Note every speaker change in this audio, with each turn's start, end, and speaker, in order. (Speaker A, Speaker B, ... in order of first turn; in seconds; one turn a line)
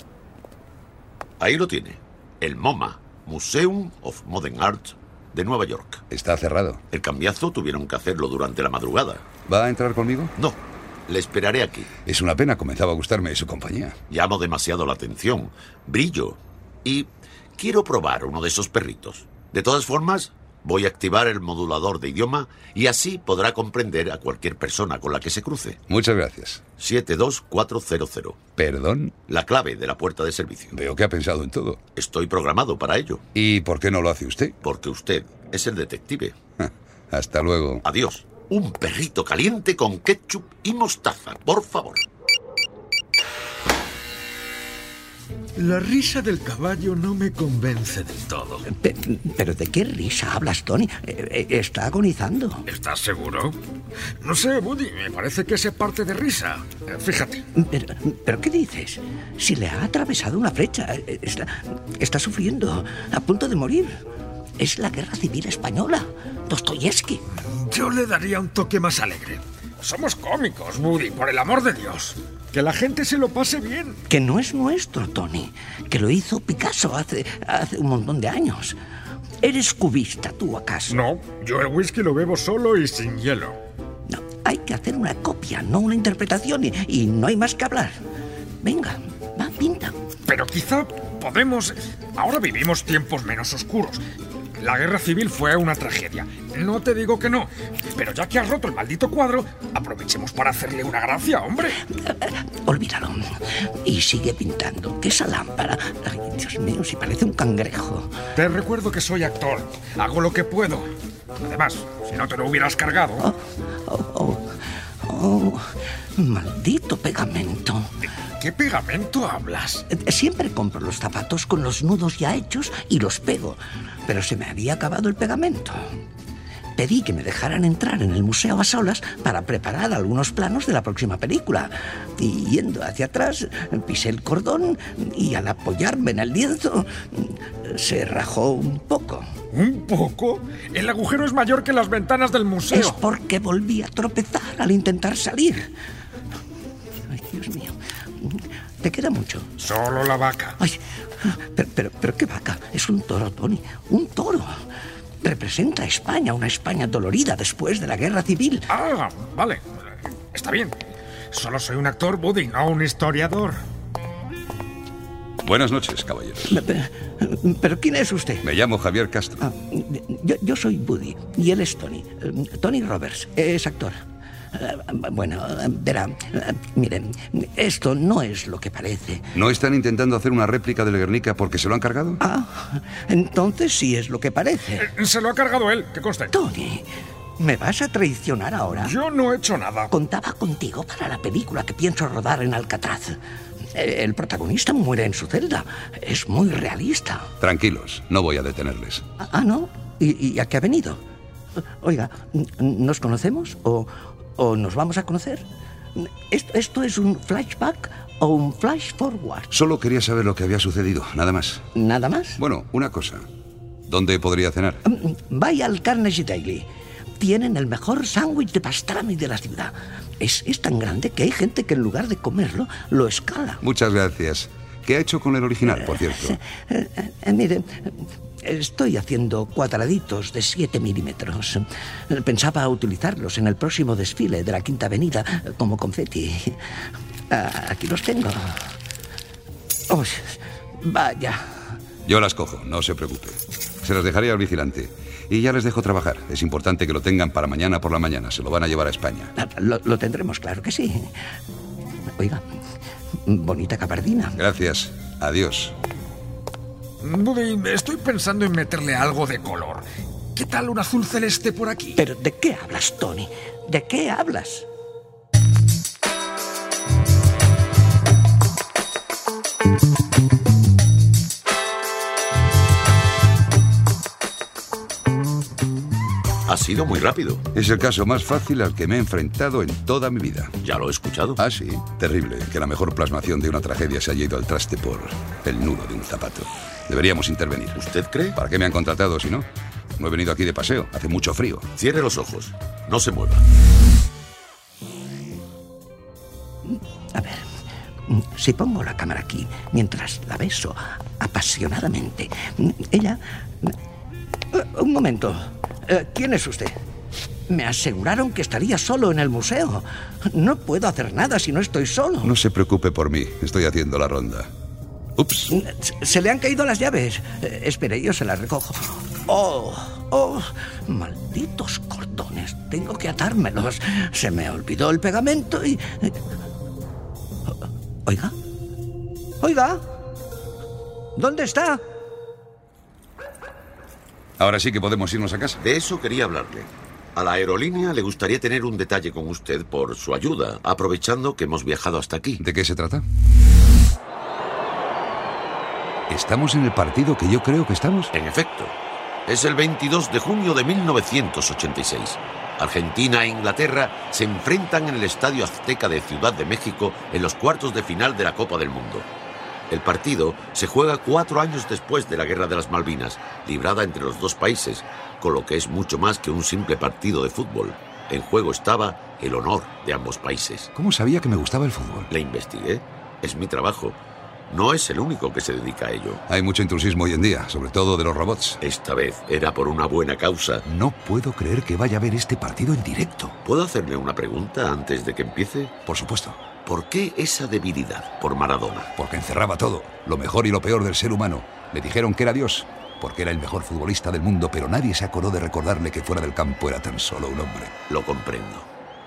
Speaker A: 1.4-6.0
Speaker B: 6.1-6.8
Speaker A: 6.9-9.2
Speaker B: 9.5-10.3
Speaker A: 10.4-11.9
Speaker B: 12.1-14.0
Speaker A: 14.1-25.8
Speaker B: 25.9-26.6
Speaker A: 26.8-28.4
Speaker B: 28.6-29.1
Speaker A: 29.3-30.8
Speaker B: 30.7-31.8
Speaker A: 32.0-33.2
Speaker B: 33.4-34.6
Speaker A: 34.6-36.4
Speaker B: 36.6-37.8
Speaker A: 37.8-42.0
Speaker C: 45.6-48.5
Speaker D: 48.7-52.7
Speaker C: 52.7-53.5
Speaker C: 54.2-57.4
Speaker D: 57.5-64.0
Speaker D: 64.6-67.2
Speaker C: 67.6-74.0
Speaker D: 74.1-78.8
Speaker D: 79.4-81.0
Speaker C: 80.9-83.6
Speaker D: 84.1-88.0
Speaker D: 88.6-90.0
Speaker C: 90.3-94.0
Speaker C: 94.6-101.7
Speaker D: 101.9-103.2
Speaker D: 103.8-108.1
Speaker C: 108.4-113.2
Speaker D: 113.2-114.5
Speaker D: 115.0-117.9
Speaker C: 118.4-119.8
Speaker D: 119.9-125.8
Speaker D: 126.8-139.3
Speaker C: 139.5-143.0
Speaker D: 142.7-145.7
Speaker D: 147.1-149.5
Speaker C: 149.6-150.6
Speaker D: 150.6-154.5
Speaker D: 155.2-158.7
Speaker C: 158.7-159.7
Speaker C: 160.3-160.8
Speaker C: 161.3-163.6
Speaker B: 165.4-166.6
Speaker D: 166.5-168.4
Speaker B: 168.4-169.5
Speaker D: 169.4-174.0
Speaker D: 174.5-179.3
Speaker B: 179.3-182.2
Speaker D: 182.2-184.9
Speaker C: 184.8-186.3
Speaker D: 186.3-186.9
Speaker D: 187.4-189.0
Speaker C: 188.8-189.9
Speaker D: 189.9-193.2
Speaker D: 193.8-197.3
Speaker B: 197.4-199.0
Speaker D: 199.2-201.0
Speaker D: 201.8-205.4
Speaker D: 206.0-209.5
Speaker B: 209.5-211.6
Speaker D: 211.8-212.4
Speaker B: 212.4-213.2
Speaker B: 213.9-214.8
Speaker D: 214.9-216.7
Speaker D: 217.2-223.6
Speaker B: 223.6-226.4
Speaker D: 225.7-236.6
Speaker D: 237.3-238.7
Speaker D: 239.9-241.4
Speaker B: 242.1-249.3
Speaker D: 249.4-251.1
Speaker D: 252.2-252.4
Speaker D: 253.3-254.4
Speaker B: 254.4-255.8
Speaker C: 257.0-259.9
Speaker C: 260.4-261.9
Speaker D: 261.9-264.7
Speaker A: 276.5-277.4
Speaker B: 277.6-280.6
Speaker A: 280.6-281.4
Speaker B: 281.4-287.8
Speaker A: 287.7-288.4
Speaker B: 288.4-289.5
Speaker B: 290.0-291.7
Speaker A: 291.8-293.4
Speaker D: 296.7-297.4
Speaker D: 298.1-303.7
Speaker D: 304.5-306.8
Speaker D: 307.5-312.4
Speaker B: 312.2-314.5
Speaker B: 315.2-315.5
Speaker D: 315.5-326.1
Speaker D: 328.1-328.3
Speaker D: 329.4-329.8
Speaker D: 331.2-331.8
Speaker B: 334.4-335.6
Speaker A: 335.6-342.4
Speaker B: 342.4-343.0
Speaker B: 346.1-348.1
Speaker A: 348.1-348.8
Speaker A: 349.3-359.1
Speaker A: 359.7-370.7
Speaker B: 370.8-372.1
Speaker A: 372.1-374.0
Speaker A: 374.5-376.2
Speaker B: 376.3-378.6
Speaker A: 378.6-380.6
Speaker B: 380.6-383.4
Speaker A: 383.4-385.7
Speaker B: 385.9-386.4
Speaker A: 386.6-388.9
Speaker B: 389.0-397.7
Speaker A: 397.9-398.7